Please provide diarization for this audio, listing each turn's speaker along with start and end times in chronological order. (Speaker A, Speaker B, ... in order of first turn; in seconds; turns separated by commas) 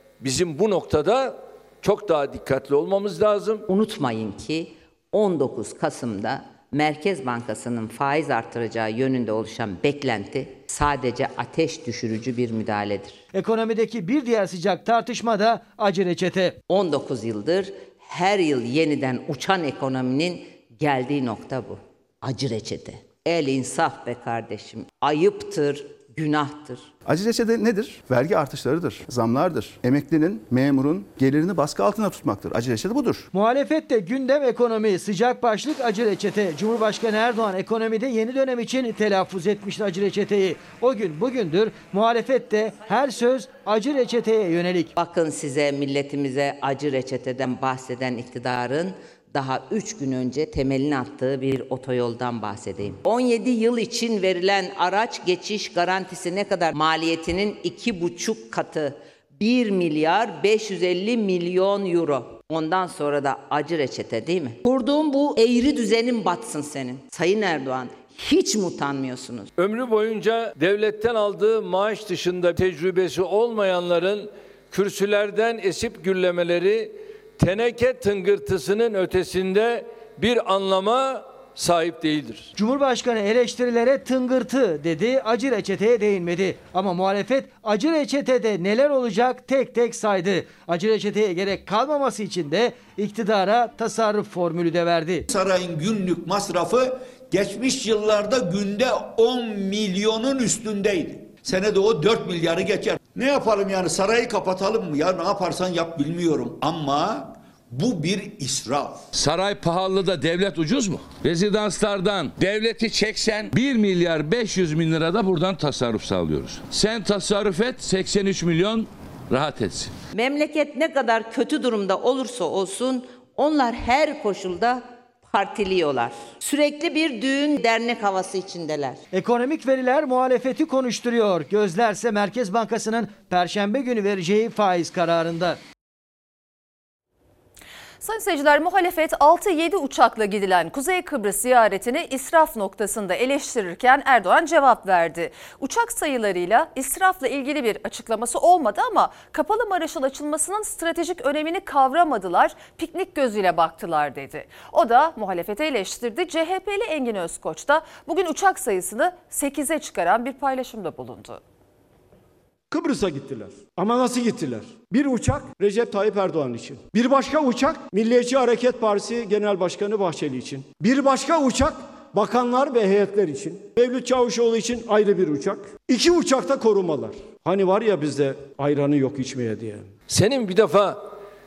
Speaker A: 0.2-3.7, Speaker B: 3.7-13.2, Speaker C: 13.3-16.6, Speaker B: 16.7-26.9, Speaker D: 27.1-33.3, Speaker C: 33.3-44.9, Speaker B: 45.0-69.5, Speaker A: 69.6-82.5, Speaker C: 82.5-95.2, Speaker E: 95.3-109.1, Speaker F: 109.1-119.9, Speaker B: 120.1-129.0, Speaker C: 129.1-135.6, Speaker G: 138.0-161.4, Speaker H: 162.7-179.9, Speaker A: 180.1-181.0